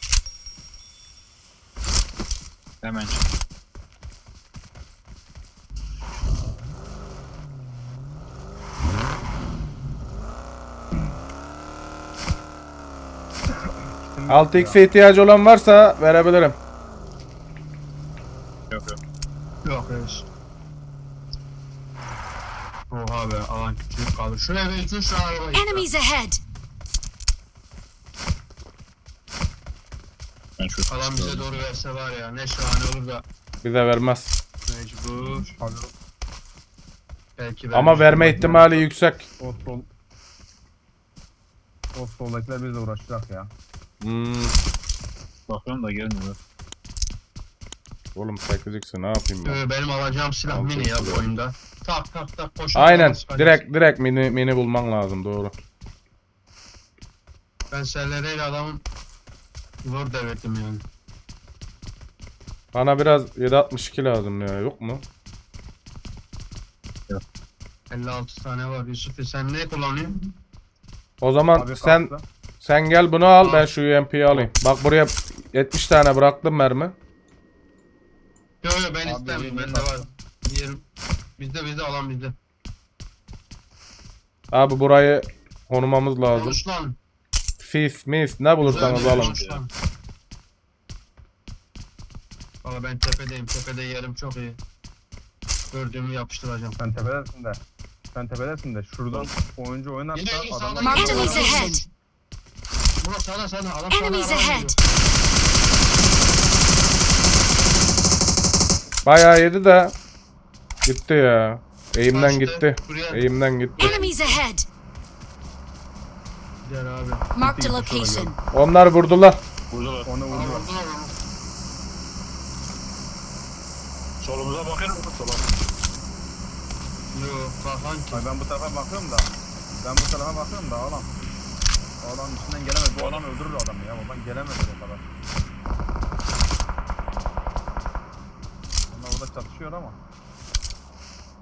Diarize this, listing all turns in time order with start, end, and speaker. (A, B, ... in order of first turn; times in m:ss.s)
0:02.8-0:03.3 A
0:13.7-0:14.8 B
0:14.3-0:16.6 C
0:18.7-0:19.0 A
0:19.6-0:20.3 D
0:22.9-0:25.9 D
0:25.5-0:26.4 E
0:30.6-0:31.4 A
0:30.9-0:33.2 D
0:33.6-0:34.3 C
0:34.7-0:35.6 D
0:35.6-0:35.9 B
0:37.4-0:38.6 D
0:37.7-0:39.3 C
0:38.3-0:38.7 B
0:39.4-0:39.9 B
0:41.9-0:43.5 B
0:44.0-0:44.6 C
0:45.5-0:46.4 A
0:48.2-0:49.6 C
0:49.4-0:53.6 D
0:50.5-0:51.3 C
0:52.8-0:55.5 C
0:57.7-0:58.8 D
0:59.8-1:00.8 D
1:02.7-1:05.0 C
1:07.9-1:10.2 D
1:11.2-1:17.0 C
1:11.6-1:12.3 B
1:13.4-1:13.7 D
1:18.6-1:20.8 D
1:19.0-1:20.0 B
1:21.4-1:22.4 D
1:24.5-1:26.6 C
1:26.3-1:27.0 D
1:27.6-1:29.3 C
1:28.6-1:29.7 D
1:28.7-1:29.6 A
1:32.6-1:34.6 D
1:35.7-1:36.8 D
1:36.8-1:37.6 B
1:38.1-1:41.8 B
1:40.1-1:41.8 D
1:40.8-1:41.8 E
1:43.0-1:44.8 D
1:43.9-1:44.7 E
1:49.0-1:50.0 C
1:50.9-1:53.9 C
1:52.1-1:53.3 D
1:53.8-1:54.4 D
1:53.8-1:54.7 E
1:56.6-1:57.3 D
1:57.4-1:58.4 E
1:57.4-1:58.3 B
1:58.5-1:59.4 C
1:59.7-2:00.1 A
2:00.0-2:00.7 B
2:00.3-2:01.1 D
2:04.2-2:05.6 A
2:07.1-2:08.2 D
2:08.1-2:09.3 B
2:09.8-2:11.1 B
2:12.0-2:15.0 B
2:12.9-2:13.2 A
2:18.9-2:20.0 B